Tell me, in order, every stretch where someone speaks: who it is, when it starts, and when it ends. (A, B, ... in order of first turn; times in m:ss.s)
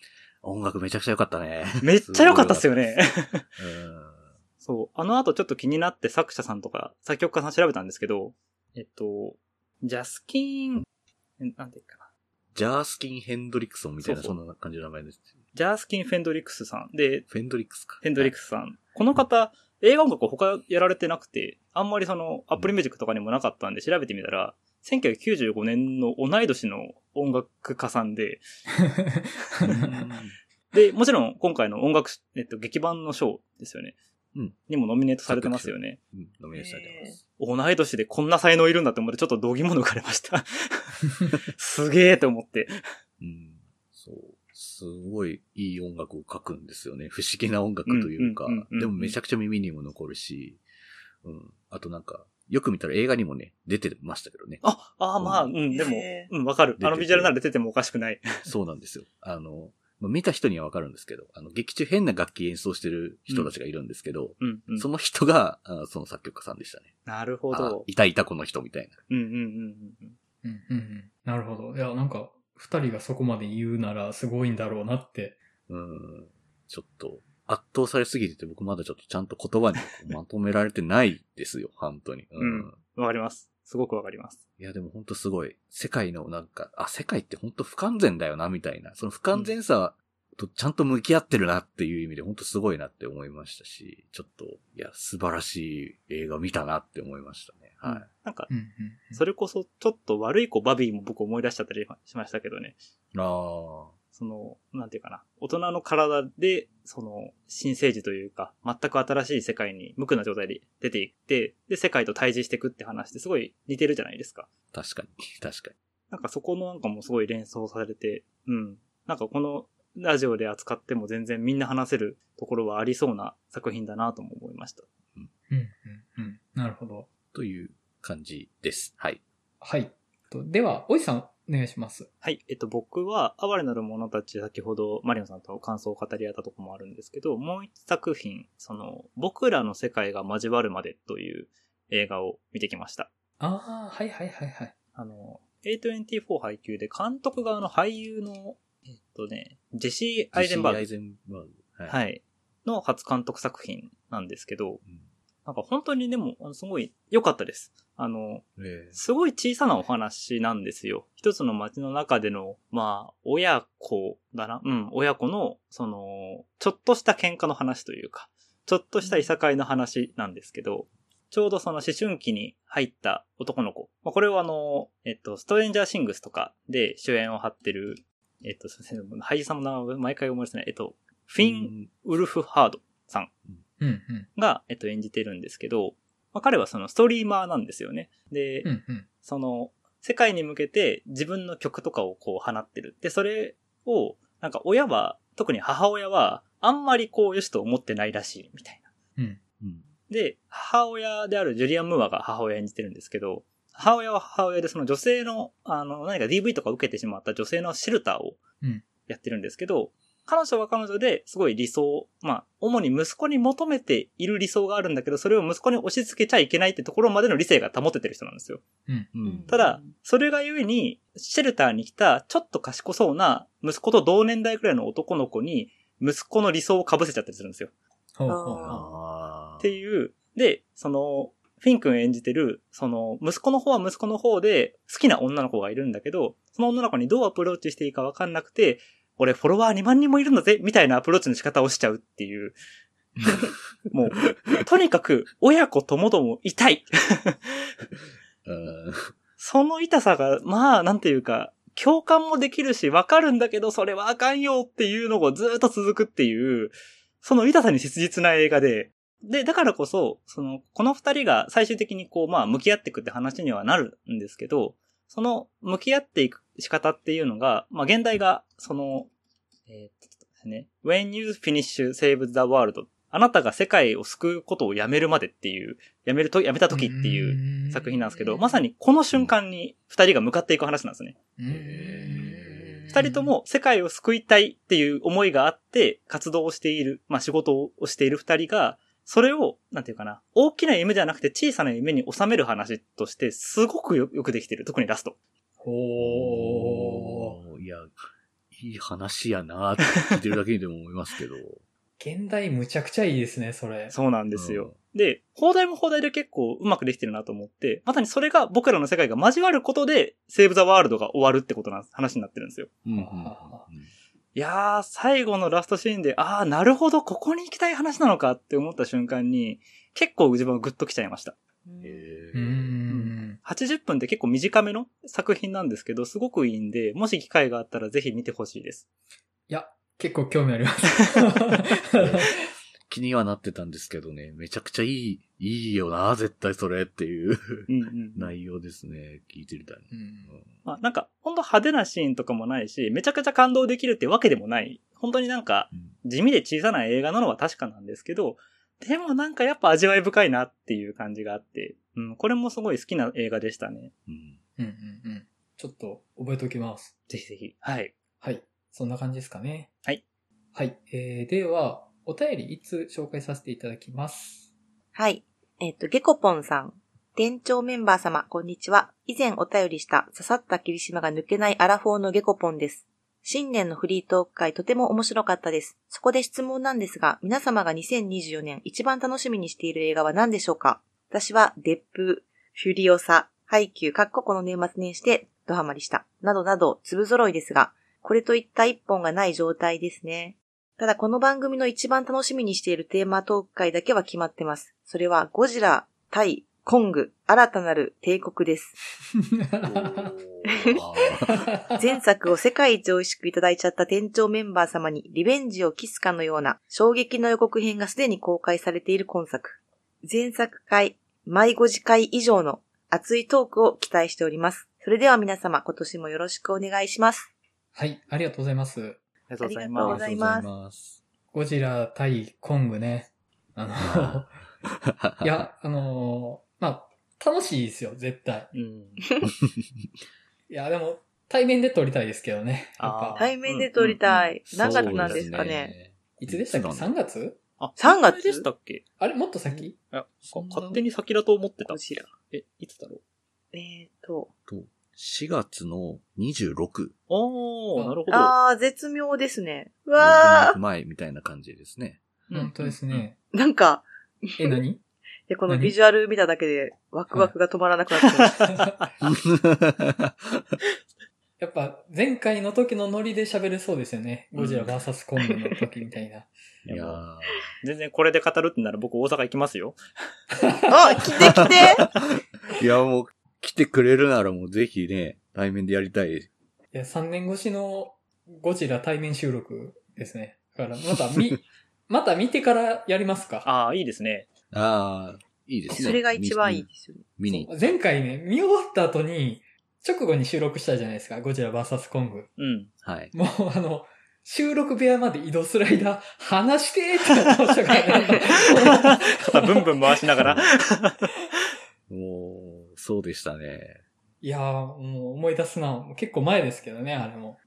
0:00.4-0:02.8 A
0:01.8-0:03.5 B
0:03.6-0:04.3 A
0:04.6-0:10.9 B
0:11.4-0:12.1 B
0:12.5-0:15.3 A
0:14.0-0:14.4 B
0:15.5-0:17.3 B
0:17.3-0:18.3 A
0:18.0-0:28.4 B
0:28.9-0:29.9 C
0:29.6-0:30.4 A
0:30.7-0:34.0 B
0:34.7-0:36.0 B
0:35.3-0:37.2 A
0:36.5-0:37.2 D
0:37.4-0:42.8 B
0:43.2-0:50.6 A
0:47.9-0:49.2 B
0:51.2-0:54.6 A
0:54.6-0:58.5 B
0:55.2-0:55.5 A
0:55.7-0:56.3 D
0:56.8-0:57.4 A
0:58.5-1:07.0 A
1:04.4-1:04.9 B
1:07.1-1:07.8 B
1:07.5-1:09.0 A
1:09.1-1:10.2 B
1:10.4-1:15.4 C
1:15.7-1:22.8 A
1:22.4-1:24.4 B
1:24.6-1:38.1 A
1:37.8-1:38.5 B
1:38.5-1:39.2 C
1:39.1-1:42.8 B
1:43.1-1:44.0 A
1:44.1-1:54.5 B
1:54.7-1:55.7 A
1:56.1-2:04.9 B
2:05.5-2:07.1 C
2:07.3-2:09.2 A
2:09.6-2:12.1 C
2:12.2-2:23.1 B
2:23.4-2:24.7 C
2:25.0-2:30.9 B
2:30.3-2:32.0 A
2:31.9-2:34.8 B
2:35.5-3:03.3 B
2:38.6-2:39.0 A
2:49.0-2:49.3 D
3:01.4-3:01.9 A
3:03.8-3:04.3 C
3:04.4-3:08.7 B
3:08.6-3:09.1 C
3:09.2-3:18.9 B
3:19.6-3:19.9 A
3:20.1-3:28.4 B
3:29.1-3:38.6 B
3:39.1-3:39.5 A
3:39.2-3:39.9 D
3:39.5-3:47.7 B
3:48.2-3:48.8 C
3:48.3-3:48.8 D
3:48.7-3:49.8 A
3:49.6-4:02.6 B
4:03.2-4:03.5 A
4:03.9-4:07.7 B
4:08.4-4:09.1 A
4:09.4-4:29.1 B
4:29.7-4:41.2 B
4:36.7-4:38.6 C
4:41.4-4:43.3 C
4:41.5-4:43.0 A
4:42.9-4:55.2 B
4:55.6-4:57.4 C
4:56.0-4:57.9 A
4:58.5-5:01.6 A
5:02.0-5:04.0 C
5:03.9-5:12.7 B
5:04.3-5:04.8 A
5:12.8-5:13.9 A
5:12.9-5:13.7 C
5:14.4-5:21.4 B
5:21.7-5:22.1 D
5:21.8-5:22.8 A
5:22.3-5:23.4 C
5:22.9-5:28.9 B
5:29.5-5:32.4 C
5:31.9-5:32.3 A
5:32.9-5:40.5 A
5:37.7-5:38.3 B
5:39.9-5:40.4 C
5:40.6-5:53.9 B
5:54.1-5:54.4 A
5:54.6-5:56.9 C
5:57.1-5:57.9 B
5:58.2-5:59.7 C
6:00.6-6:04.5 C
6:05.0-6:38.8 D
6:39.2-6:40.1 C
6:39.6-6:41.5 A
6:40.5-6:40.8 D
6:41.3-6:41.9 C
6:41.8-6:57.3 D
6:57.8-6:59.0 C
6:59.3-7:00.4 B
6:59.4-7:00.5 D
6:59.8-7:01.0 A
7:01.3-7:04.4 C
7:03.8-7:05.5 A
7:05.2-7:08.5 C
7:08.5-7:09.0 B
7:10.5-7:13.2 C
7:12.8-7:13.7 B
7:13.2-7:15.8 D
7:13.8-7:16.9 A
7:14.6-7:15.4 B
7:16.2-7:17.4 C
7:17.6-7:18.8 B
7:17.8-7:18.5 D
7:19.0-7:19.8 C
7:19.5-7:23.0 B
7:20.3-7:20.8 C
7:21.6-7:22.1 D
7:23.5-7:24.3 D
7:24.5-7:26.9 A
7:27.1-7:28.4 B
7:28.1-7:30.6 D
7:30.0-7:32.0 A
7:32.3-7:33.0 B
7:32.3-7:33.2 C
7:33.3-7:34.6 D
7:34.4-7:34.8 C
7:35.3-7:38.5 D
7:35.5-7:35.8 C
7:39.0-7:40.6 A
7:41.4-7:46.3 C
7:44.4-7:44.7 B
7:46.6-7:47.0 B
7:46.7-7:47.5 A
7:47.6-7:49.8 B
7:50.4-7:51.0 C
7:50.7-7:51.8 D
7:52.6-7:56.3 A
7:56.7-8:03.5 C
8:03.4-8:04.3 B
8:04.5-8:07.8 A
8:05.7-8:07.5 D
8:07.5-8:12.3 C
8:12.4-8:12.7 B
8:12.8-8:13.1 A
8:13.1-8:19.7 C
8:18.2-8:21.1 B
8:20.2-8:20.5 A
8:21.9-8:23.8 A
8:24.2-8:27.4 C